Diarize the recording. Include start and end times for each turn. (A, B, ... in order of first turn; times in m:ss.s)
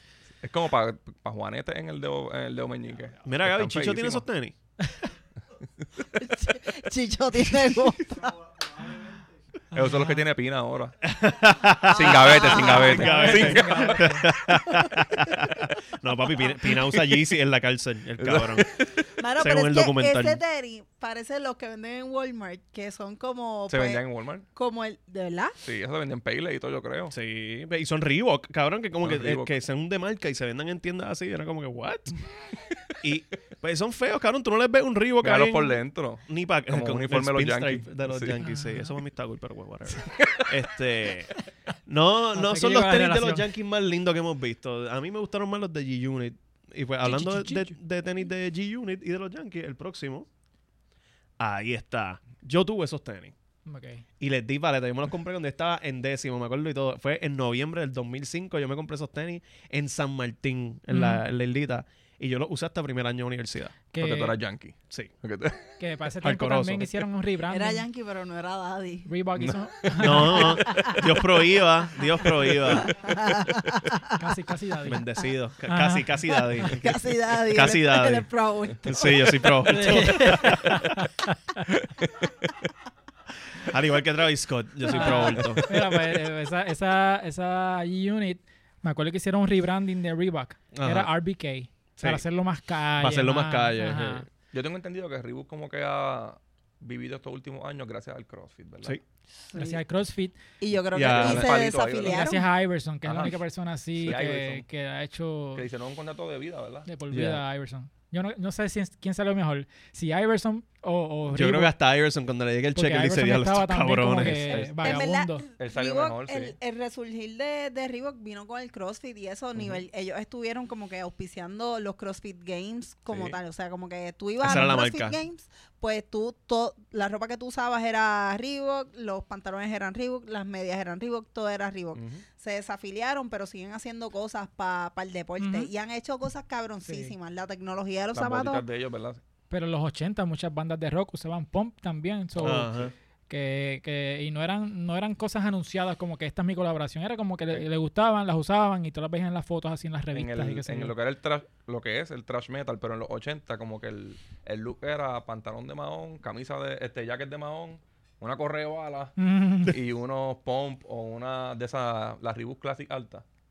0:00.4-0:04.2 A
0:03.2-0:04.5 B
0:06.1-0:08.4 C
0:09.7-0:10.2 D
0:09.7-0:11.0 A
0:11.0-0:18.8 B
0:11.8-0:13.5 C
0:11.9-0:14.2 A
0:12.8-0:14.3 D
0:14.5-0:15.3 C
0:16.7-0:17.0 A
0:18.2-0:19.0 A
0:19.2-0:25.6 C
0:19.4-0:20.4 B
0:23.7-0:24.4 A
0:25.6-0:27.1 A
0:27.1-0:32.2 B
0:29.0-0:29.5 A
0:33.0-0:41.3 B
0:35.2-0:38.4 A
0:38.4-0:38.9 D
0:40.2-0:40.4 A
0:41.9-0:50.3 B
0:42.3-0:43.5 D
0:47.0-0:47.8 D
0:51.4-0:53.3 B
0:53.6-0:54.0 D
0:54.2-1:03.7 B
1:00.9-1:01.2 D
1:03.9-1:04.4 D
1:04.0-1:05.7 A
1:05.8-1:07.8 D
1:06.2-1:06.9 B
1:07.5-1:09.1 C
1:09.0-1:10.8 D
1:10.0-1:13.1 B
1:10.3-1:11.6 C
1:12.2-1:14.2 C
1:14.1-1:15.1 D
1:14.8-1:18.3 B
1:15.6-1:16.7 D
1:16.6-1:20.6 C
1:18.8-1:20.9 B
1:19.6-1:21.7 D
1:22.0-1:22.5 A
1:23.6-1:25.8 B
1:24.9-1:34.2 D
1:30.7-1:31.1 B
1:32.0-1:32.2 B
1:33.0-1:34.3 B
1:34.5-1:39.0 A
1:39.5-1:39.8 C
1:39.5-1:40.4 D
1:40.6-1:42.4 C
1:40.9-1:41.5 B
1:41.0-1:42.4 A
1:42.0-1:45.6 D
1:43.0-1:43.4 A
1:43.9-1:44.6 A
1:45.6-1:46.9 A
1:46.8-1:51.7 D
1:47.1-1:47.4 B
1:51.3-1:54.9 B
1:52.7-1:55.4 D
1:54.4-2:18.6 C
1:55.6-1:56.6 A
1:59.6-1:59.8 A
2:03.1-2:03.4 A
2:04.4-2:05.2 B
2:11.9-2:12.2 A
2:15.4-2:15.7 D
2:16.8-2:17.1 D
2:18.1-2:19.2 A
2:19.5-2:22.7 D
2:22.4-2:22.9 B
2:22.5-2:22.8 A
2:23.3-2:30.9 D
2:30.1-2:43.2 A
2:39.2-2:39.8 D